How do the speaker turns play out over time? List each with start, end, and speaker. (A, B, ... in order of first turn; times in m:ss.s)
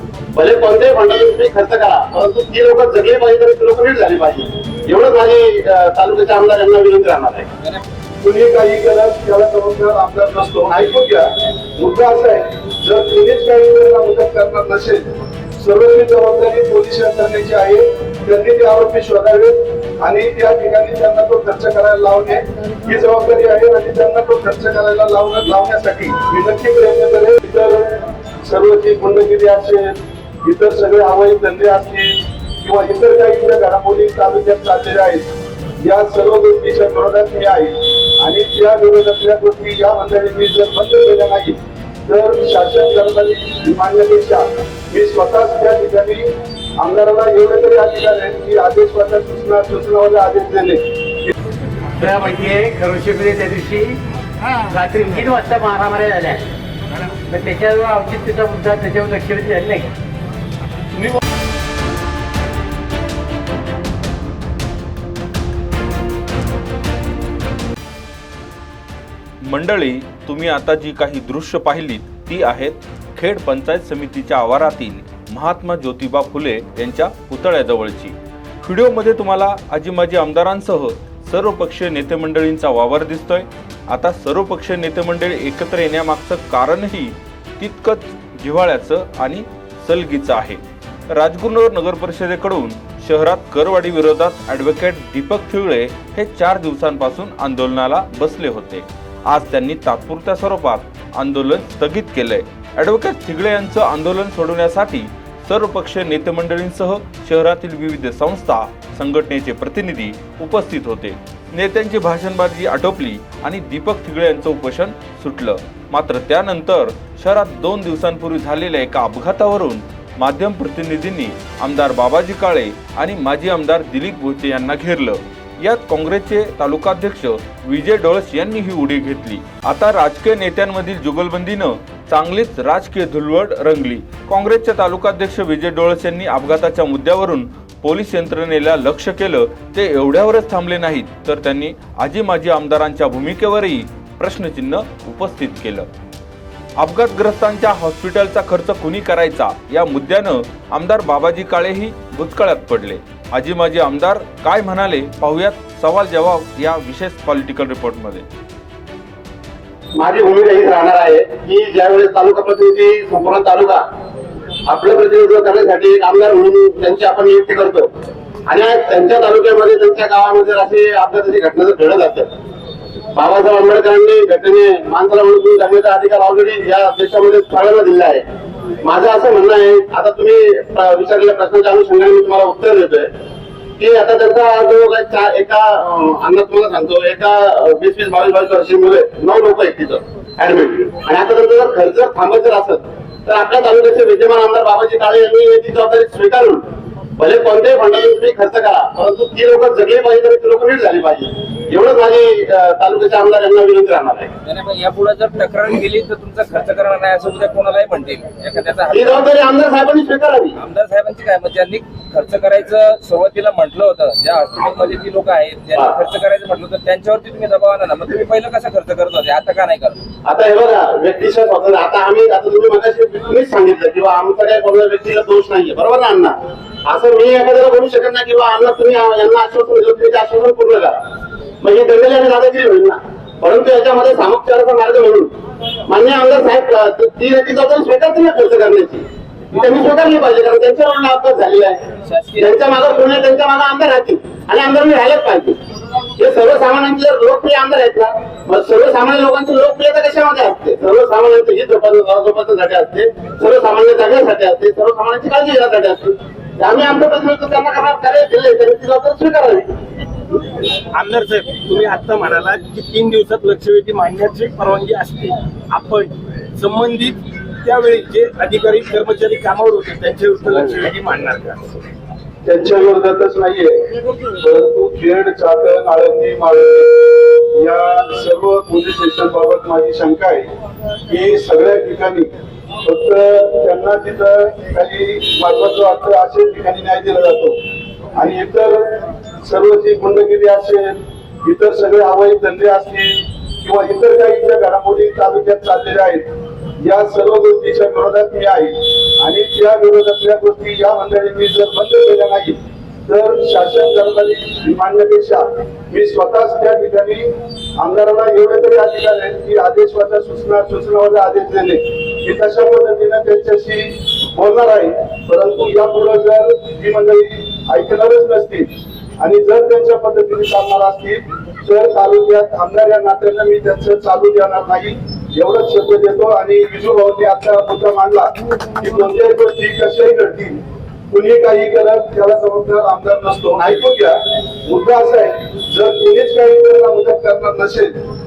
0:00.3-0:07.5 A
0:08.2-0:15.1 B
0:15.6-0:27.9 B
0:28.5-0:35.3 B
0:35.8-0:51.3 B
0:52.0-0:54.0 C
0:54.6-0:56.4 C
0:57.1-0:59.9 C
1:09.4-1:30.6 D
1:31.1-2:25.9 D
2:26.8-2:38.2 D
2:40.0-2:43.8 A
2:44.7-2:47.9 A
2:48.5-2:52.3 A
2:53.1-2:58.2 A
2:58.8-3:03.1 A
3:03.8-3:16.6 A
3:17.2-3:24.4 A
3:24.4-3:29.4 E
3:28.9-3:30.6 A
3:30.6-3:40.0 E
3:40.2-3:51.0 A
3:51.6-3:55.3 A
3:55.9-4:01.8 A
4:02.1-4:02.5 E
4:02.4-4:05.6 A
4:06.2-4:19.7 A
4:20.9-4:31.8 F
4:32.4-4:33.8 B
4:34.4-4:40.5 B
4:41.1-4:42.3 B
4:42.8-4:47.6 B
4:48.2-4:56.3 B
4:56.8-5:37.9 B